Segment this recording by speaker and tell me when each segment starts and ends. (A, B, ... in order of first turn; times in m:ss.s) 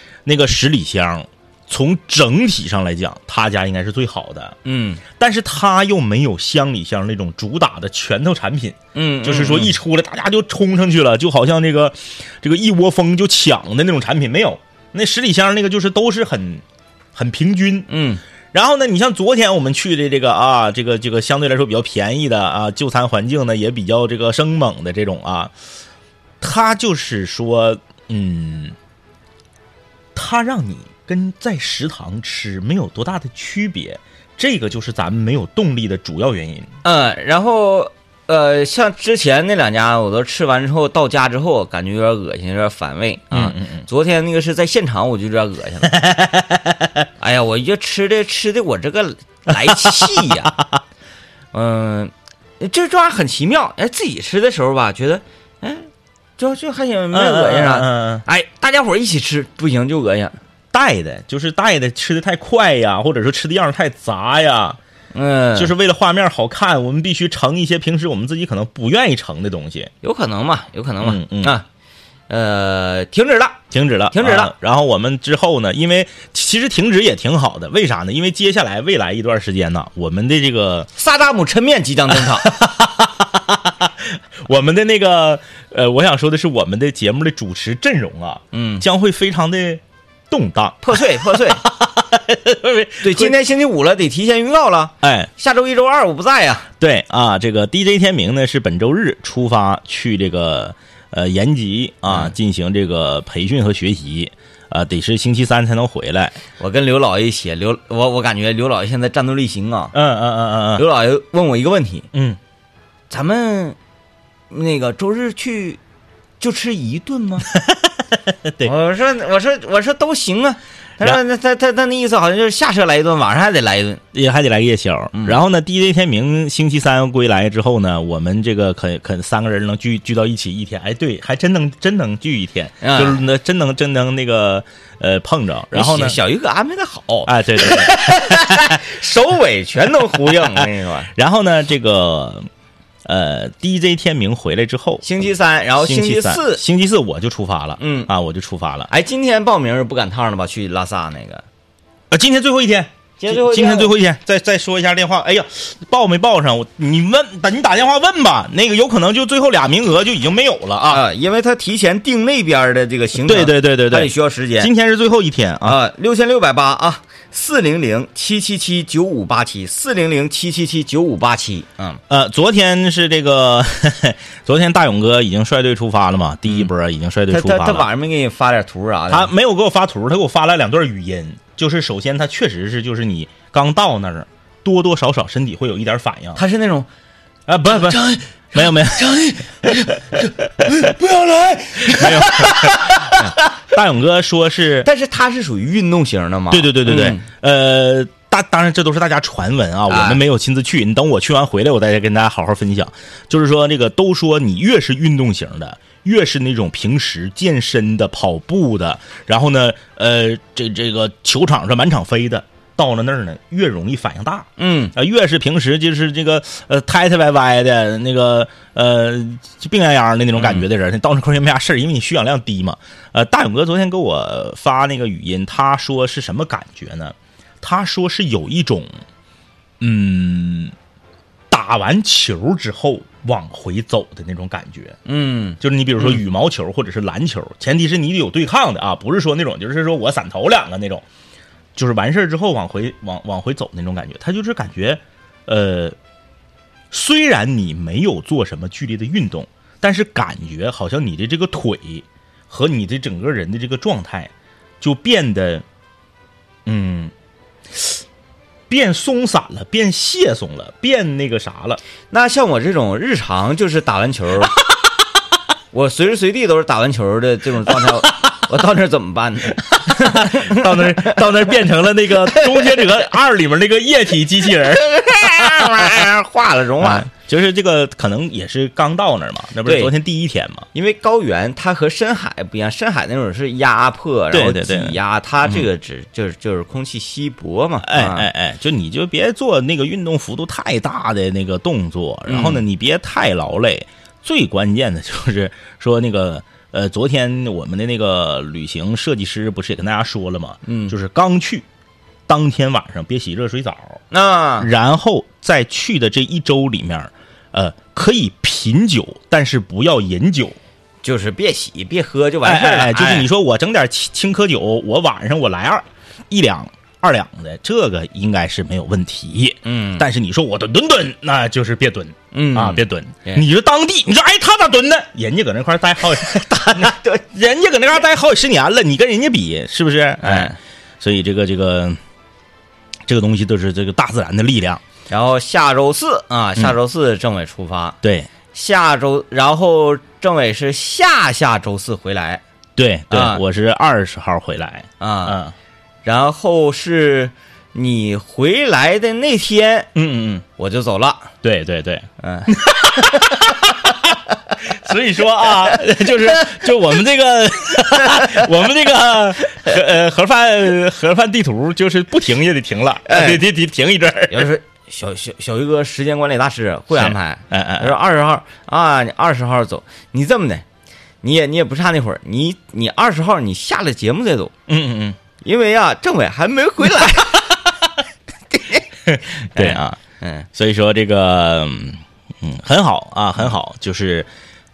0:00.2-0:04.6 A
0:04.6-0:05.0 B
0:05.1-0:16.6 A
0:08.9-0:09.7 B
0:17.1-0:17.9 A
0:17.9-0:18.2 B
0:18.5-0:25.5 A
0:26.4-0:28.8 A
0:30.1-0:36.7 A
0:36.8-0:45.9 B
0:43.3-0:43.8 A
0:45.9-0:47.0 A
0:47.2-0:50.5 B
0:49.6-0:50.8 A
0:51.5-1:00.4 B
0:57.1-0:58.2 A
1:00.7-1:04.8 A
1:05.1-1:05.7 B
1:05.6-1:09.9 A
1:10.0-1:11.6 B
1:11.0-1:11.5 A
1:12.3-1:13.6 B
1:13.7-1:20.9 A
1:14.1-1:14.5 B
1:21.0-1:22.5 B
1:22.2-1:33.3 A
1:28.5-1:28.8 B
1:30.8-1:31.6 B
1:33.0-1:36.7 B
1:35.0-1:35.3 A
1:36.8-1:46.4 A
1:46.6-1:49.9 B
1:49.9-1:50.8 A
1:50.8-1:52.1 B
1:52.1-1:52.4 A
1:53.1-1:53.8 B
1:54.5-1:55.8 B
1:56.4-1:57.5 B
1:57.5-1:58.7 A
1:58.6-2:04.0 B
2:04.1-2:16.2 A
2:12.8-2:13.2 B
2:15.7-2:21.1 B
2:17.2-2:18.8 A
2:20.3-2:22.4 A
2:23.0-2:25.0 A
2:25.0-2:26.6 B
2:25.8-2:28.9 A
2:27.8-2:28.1 B
2:28.9-2:31.4 B
2:32.1-2:41.0 A
2:33.2-2:33.9 B
2:40.8-2:44.7 B
2:43.2-2:45.8 A
2:45.6-2:52.0 B
2:52.1-2:57.9 A
2:57.3-2:59.3 B
2:59.1-3:06.4 A
3:06.4-3:06.9 B
3:07.5-3:09.3 A
3:07.7-3:13.4 B
3:11.8-3:14.9 A
3:14.8-3:17.2 B
3:16.5-3:49.0 A
3:19.9-3:20.2 B
3:34.6-3:34.9 B
3:40.4-3:40.6 B
3:49.8-3:50.7 A
3:51.5-3:55.0 A
3:55.0-3:55.6 B
3:55.6-4:01.0 A
4:01.8-4:06.0 A
4:06.9-4:15.6 A
4:16.6-4:17.1 A
4:18.7-4:21.8 A
4:22.1-4:24.6 B
4:25.7-4:31.2 B
4:29.8-4:36.0 A
4:32.3-4:32.8 B
4:34.9-4:37.1 B
4:36.8-4:40.7 A
4:39.6-4:39.9 B
4:40.7-4:48.3 B
4:44.3-4:45.6 A
4:47.8-5:01.6 A
4:52.3-4:52.6 B
5:00.6-5:00.9 B
5:02.3-5:04.0 A
5:04.1-5:04.7 B
5:04.6-5:10.6 A
5:11.0-5:13.3 B
5:12.4-5:32.0 A
5:19.6-5:20.0 B
5:22.3-5:23.4 B
5:26.8-5:27.2 B
5:30.2-5:30.6 B
5:33.1-5:34.8 A
5:35.1-5:38.0 B
5:38.0-5:38.3 A
5:38.5-5:42.4 B
5:42.8-5:45.5 A
5:43.1-5:43.4 B
5:45.0-5:45.4 B
5:46.0-5:49.9 B
5:49.9-5:50.4 A
5:50.6-5:51.3 B
5:51.4-6:04.5 A
5:52.2-5:53.4 B
5:58.0-5:58.3 B
6:03.0-6:03.4 B
6:04.3-6:10.6 B
6:07.0-6:07.9 A
6:11.2-6:14.5 B
6:14.7-6:15.2 A
6:15.4-6:17.5 B
6:18.5-6:18.8 B
6:19.0-6:20.0 A
6:19.4-6:20.4 B
6:20.5-6:24.3 A